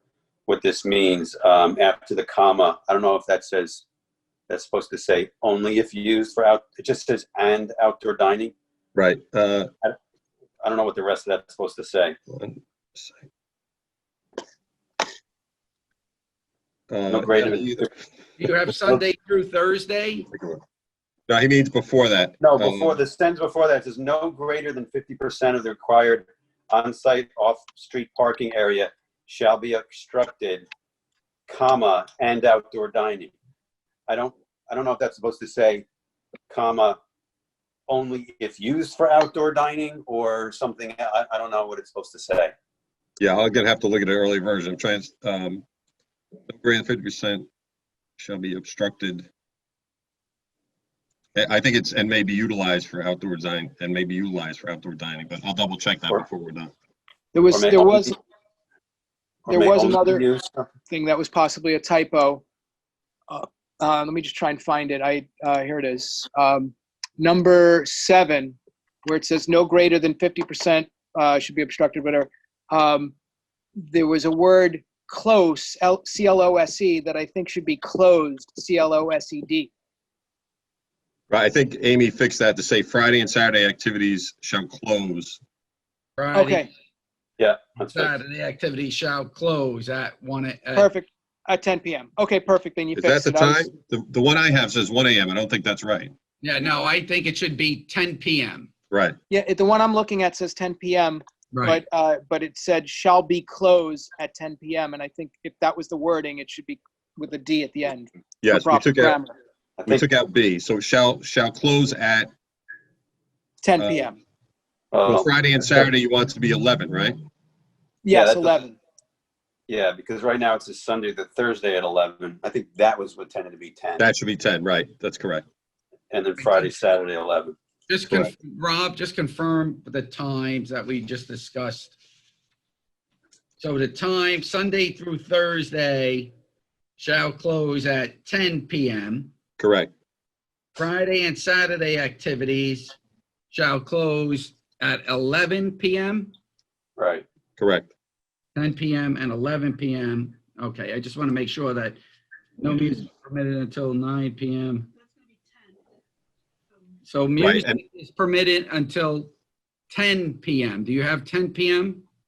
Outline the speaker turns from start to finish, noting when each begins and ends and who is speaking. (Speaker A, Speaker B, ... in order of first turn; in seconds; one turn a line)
Speaker A: 0.5-3.9
Speaker A: 4.5-8.5
Speaker B: 8.9-9.7
Speaker A: 10.6-12.2
Speaker B: 12.3-13.2
Speaker B: 16.9-17.9
Speaker A: 17.1-17.9
Speaker C: 18.4-20.3
Speaker B: 20.3-20.6
Speaker B: 21.3-23.0
Speaker A: 22.4-30.7
Speaker A: 31.5-33.3
Speaker A: 34.1-35.9
Speaker A: 36.5-37.0
Speaker A: 37.9-42.5
Speaker B: 43.2-45.6
Speaker B: 46.5-47.5
Speaker B: 48.2-49.3
Speaker B: 51.4-56.7
Speaker D: 57.3-58.2
Speaker A: 57.5-58.1
Speaker A: 59.5-60.7
Speaker D: 59.5-60.3
Speaker D: 60.9-62.4
Speaker D: 63.3-73.1
Speaker D: 73.9-79.7
Speaker B: 81.3-85.4
Speaker C: 86.2-86.7
Speaker D: 86.3-86.7
Speaker A: 87.4-88.2
Speaker C: 87.9-90.9
Speaker D: 90.8-93.7
Speaker B: 92.9-96.1
Speaker C: 96.4-98.7
Speaker B: 98.9-99.2
Speaker D: 99.3-109.3
Speaker C: 101.5-101.8
Speaker B: 108.4-109.2
Speaker A: 109.8-110.1
Speaker B: 109.9-112.3
Speaker D: 113.6-114.2
Speaker B: 113.8-114.1
Speaker A: 114.9-115.9
Speaker B: 115.1-117.2
Speaker D: 118.0-118.7
Speaker A: 118.1-118.7
Speaker A: 119.7-124.1
Speaker B: 124.0-125.5
Speaker A: 126.1-127.5
Speaker C: 126.4-126.8
Speaker C: 127.9-132.0
Speaker C: 133.6-136.3
Speaker C: 137.0-139.3
Speaker B: 139.6-139.9
Speaker C: 140.8-143.0
Speaker C: 143.5-146.3
Speaker A: 147.0-147.2
Speaker B: 147.6-147.9
Speaker C: 148.6-152.0
Speaker C: 152.6-154.9
Speaker C: 157.1-159.3
Speaker B: 157.4-157.8
Speaker C: 159.9-162.0